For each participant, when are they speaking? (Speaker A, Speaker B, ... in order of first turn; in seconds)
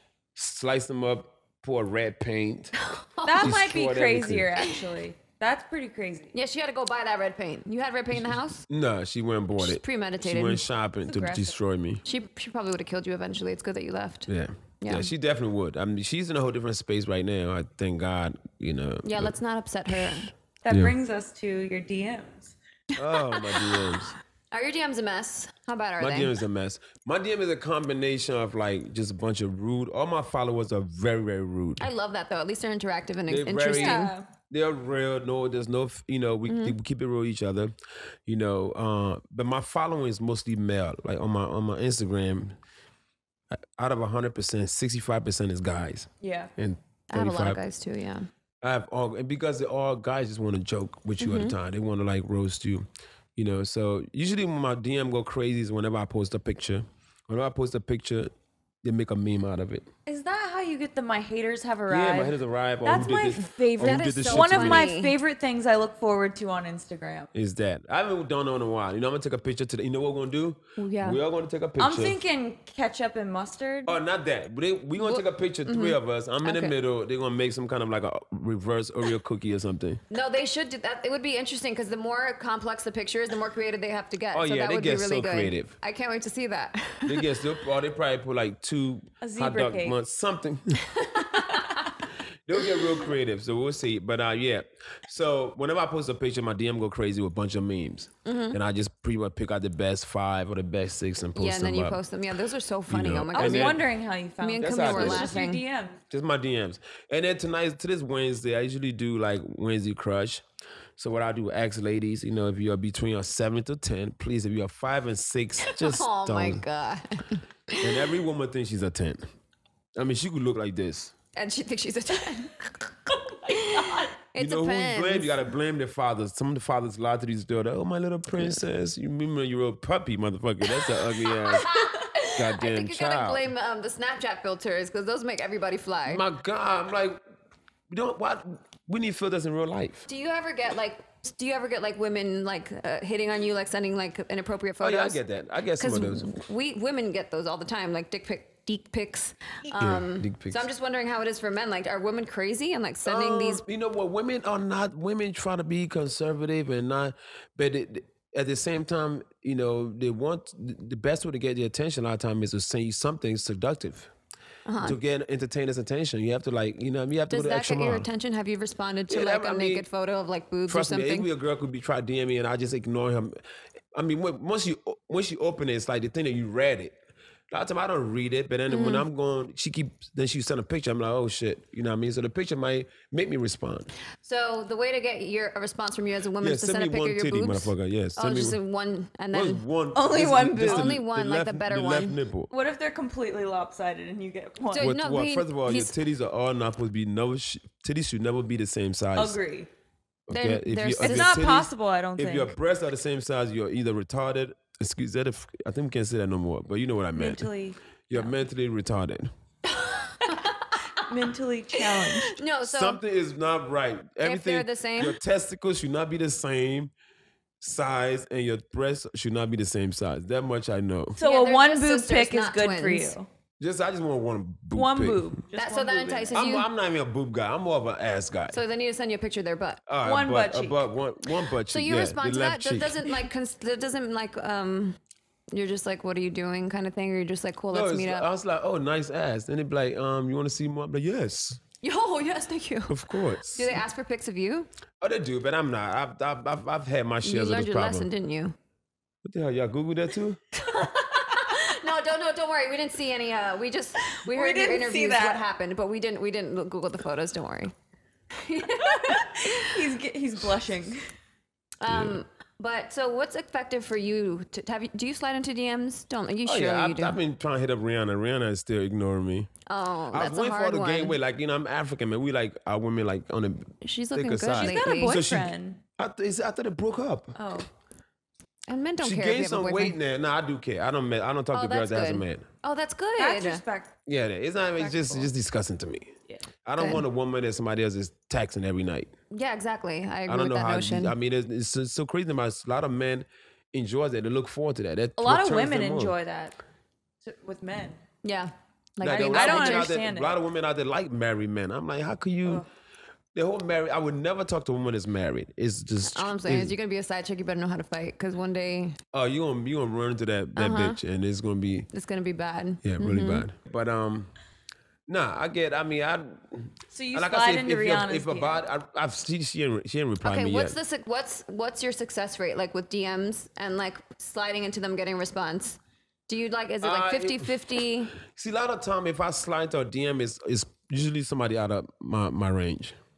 Speaker A: 0.3-2.7, 3.4-4.5, 8.7-12.0, 14.3-19.3, 19.9-20.9, 22.9-24.1, 26.0-31.9, 33.3-37.7, 38.2-42.6, 43.5-47.6, 48.6-58.3, 58.8-59.9, 61.9-64.9, 67.3-72.2, 73.8-80.0, 84.3-85.7, 87.0-90.9, 92.5-102.0, 102.9-103.8, 104.6-105.4, 106.1-110.4, 111.0-116.6, 117.8-119.2, 120.0-121.1, 124.4-131.7, 132.3-133.4, 136.1-137.2, 137.9-140.1, 144.8-146.4, 149.8-150.7, 153.0-164.1, 164.8-168.1, 169.1-169.8, 170.7-173.4, 173.9-176.9, 177.5-183.9, 186.4-188.6, 189.3-192.5, 194.8-199.4, 200.3-207.5, 208.1-209.3, 212.6-216.9, 217.6-221.2, 223.6-225.3, 226.3-228.6, 229.9-233.0, 237.7-241.6, 242.9-243.7, 245.0-248.1, 249.2-250.4, 261.9-262.2, 266.4-269.5, 270.1-277.4, 279.0-282.4, 284.1-286.1, 286.6-289.1, 290.3-296.1, 299.0-302.6, 303.3-306.7, 309.1-311.9, 312.8-314.3, 315.1-320.8, 326.8-333.0
Speaker B: 2.8-3.6, 6.3-8.6, 9.6-10.6, 12.0-14.3, 14.8-15.1, 19.0-20.3, 23.0-26.3, 31.8-34.1, 36.5-36.8, 47.1-48.3, 51.2-51.5, 63.8-65.1, 70.8-71.2, 75.0-76.7, 80.1-87.4, 91.0-91.5, 98.2-98.6, 101.3-103.8, 104.4-105.6, 115.7-118.1, 121.3-125.4, 130.7-136.2, 140.1-145.2, 145.8-153.6, 164.7-165.0, 167.3-171.3, 178.7-179.0, 184.2-189.6, 190.6-192.2, 194.7-195.9, 200.3-201.5, 209.7-211.0, 211.7-213.0, 214.2-215.2, 221.2-223.2, 225.5-226.7, 228.5-229.8, 231.7-235.0, 235.5-238.3, 241.8-244.7, 247.2-248.6, 250.5-257.7, 258.3-259.9, 261.8-267.2, 269.6-271.2, 273.8-275.2, 278.7-280.0, 281.5-283.6, 286.8-287.0, 289.3-291.1, 298.2-299.9, 306.1-309.0, 310.6-311.0, 311.9-313.4, 320.2-328.1
Speaker C: 3.2-6.3, 11.1-11.6, 20.6-22.5, 33.7-34.2, 46.2-46.5, 60.0-67.3, 71.8-74.0, 89.2-90.0, 103.3-106.0, 123.6-124.1, 189.9-190.9, 192.5-194.9, 199.1-199.7, 201.0-202.5, 207.2-207.8, 210.9-212.4, 221.2-223.3, 224.7-226.4, 230.0-230.8, 254.1-255.4, 258.9-261.0, 274.5-275.8, 277.4-277.7, 283.2-283.9, 284.8-285.3, 295.2-296.6, 297.2-298.0, 299.1-300.4, 316.9-318.6